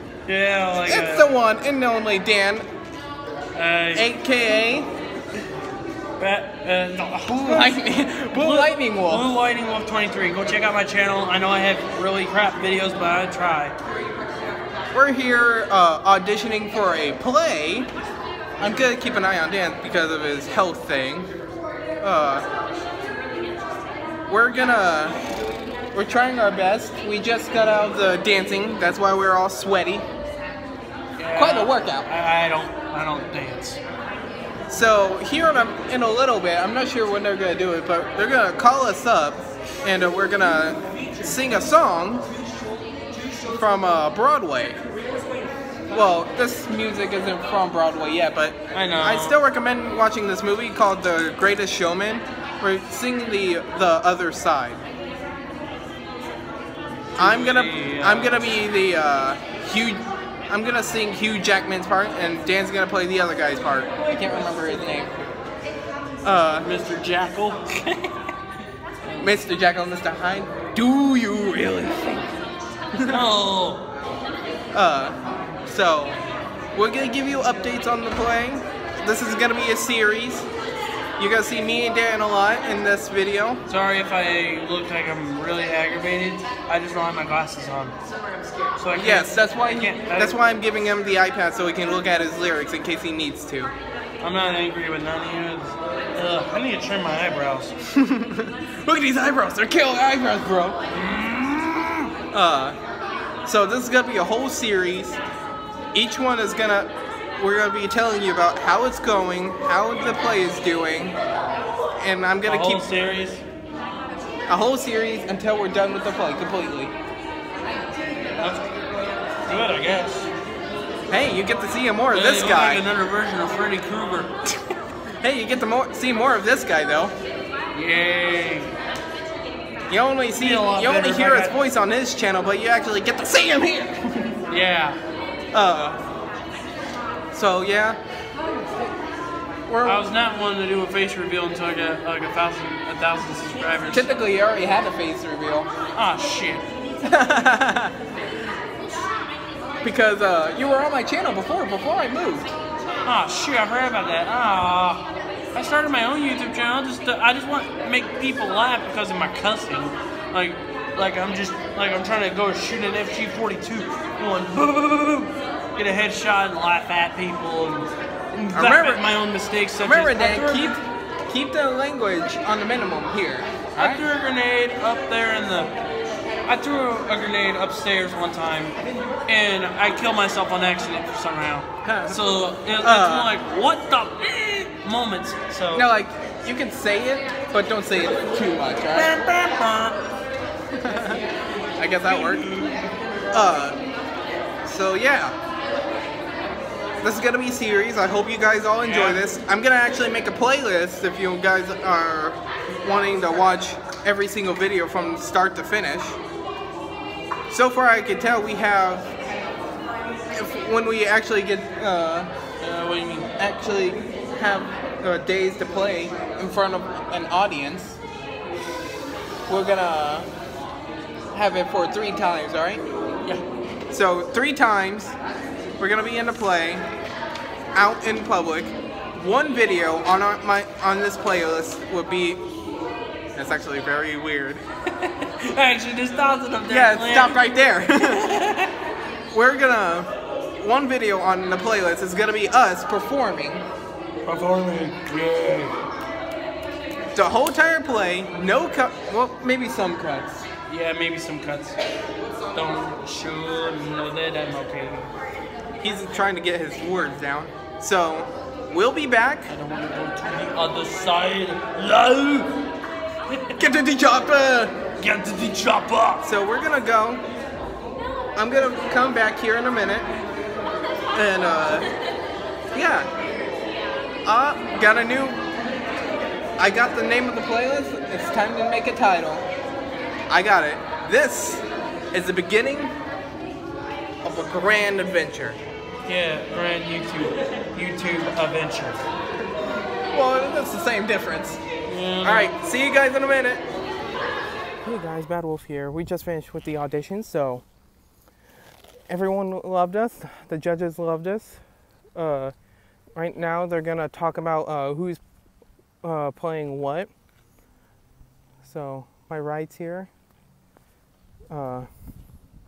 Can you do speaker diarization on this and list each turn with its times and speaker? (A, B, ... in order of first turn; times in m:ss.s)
0:00.3-0:01.3 A
0:00.8-0:02.7 B
0:03.5-0:04.1 A
0:04.0-0:04.9 B
0:06.2-0:13.7 A
0:07.4-0:09.3 B
0:14.9-0:17.9 B
0:18.6-0:21.3 B
0:22.0-0:22.4 B
0:24.3-0:25.2 B
0:25.9-0:30.0 B
0:31.2-0:33.8 A
0:31.3-0:32.1 B
0:34.7-0:42.3 B
0:43.5-0:44.8 B
0:45.9-0:54.8 B
0:48.7-0:49.4 A
0:57.2-1:05.2 B
0:57.2-0:58.5 A
1:06.2-1:06.7 B
1:06.6-1:08.2 A
1:09.2-1:12.3 B
1:12.9-1:13.2 B
1:13.1-1:13.8 A
1:14.7-1:16.2 B
1:16.8-1:20.5 B
1:21.2-1:23.6 B
1:23.7-1:28.0 A
1:28.8-1:30.4 A
1:29.0-1:33.7 B
1:34.2-1:37.7 A
1:37.9-1:40.8 B
1:40.9-1:42.1 A
1:42.3-1:42.8 B
1:43.5-1:45.2 B
1:45.9-1:51.2 B
1:52.0-1:52.9 B
1:52.4-1:53.4 A
1:54.5-1:56.9 B
1:58.4-1:58.7 A
1:59.5-2:00.3 A
2:01.1-2:02.8 B
2:02.1-2:04.3 A
2:05.2-2:07.1 B
2:07.7-2:08.8 A
2:09.9-2:14.4 B
2:10.4-2:11.6 A
2:14.5-2:15.0 A
2:15.5-2:16.0 B
2:17.3-2:18.0 B
2:19.7-2:20.1 B
2:19.8-2:24.2 A
2:23.9-2:25.7 B
2:25.9-2:26.7 A
2:27.0-2:27.9 B
2:29.8-2:32.5 B
2:33.0-2:50.8 A
2:48.5-2:49.0 B
2:49.8-2:54.0 B
2:53.8-2:55.7 A
2:56.5-2:58.8 A
2:59.3-3:05.9 A
3:01.8-3:02.2 B
3:02.8-3:03.3 B
3:05.7-3:09.1 B
3:08.9-3:10.0 A
3:10.8-3:11.2 B
3:11.8-3:12.4 B
3:12.1-3:12.8 A
3:13.3-3:13.8 B
3:14.7-3:15.4 B
3:17.0-3:26.2 B
3:18.8-3:19.2 A
3:27.5-3:29.1 B
3:30.3-3:32.3 B
3:32.6-3:33.3 A
3:33.4-3:38.0 B
3:39.5-3:40.3 B
3:41.3-3:42.8 B
3:43.9-3:45.2 B
3:45.8-3:46.8 B
3:47.7-3:52.4 B
3:53.3-3:54.6 B
3:55.0-3:58.7 A
3:56.7-3:58.3 B
3:59.3-4:03.7 B
4:04.2-4:05.8 A
4:07.2-4:10.4 B
4:10.7-4:11.8 A
4:12.5-4:15.1 A
4:15.8-4:19.5 B
4:19.5-4:22.6 A
4:23.3-4:23.6 A
4:23.6-4:24.8 B
4:25.0-4:26.2 A
4:26.2-4:27.2 B
4:28.4-4:30.1 B
4:31.1-4:31.9 B
4:32.7-4:33.1 B
4:34.2-4:35.4 B
4:36.6-4:39.4 B
4:40.3-4:42.9 B
4:44.2-4:45.6 B
4:46.0-4:49.0 A
4:50.1-4:51.6 B
4:51.9-4:52.5 A
4:52.2-4:53.6 B
4:54.8-4:57.6 B
4:59.1-5:01.6 B
5:02.1-5:02.5 B
5:03.2-5:05.2 B
5:06.0-5:07.1 B
5:08.6-5:10.1 B
5:11.5-5:11.9 B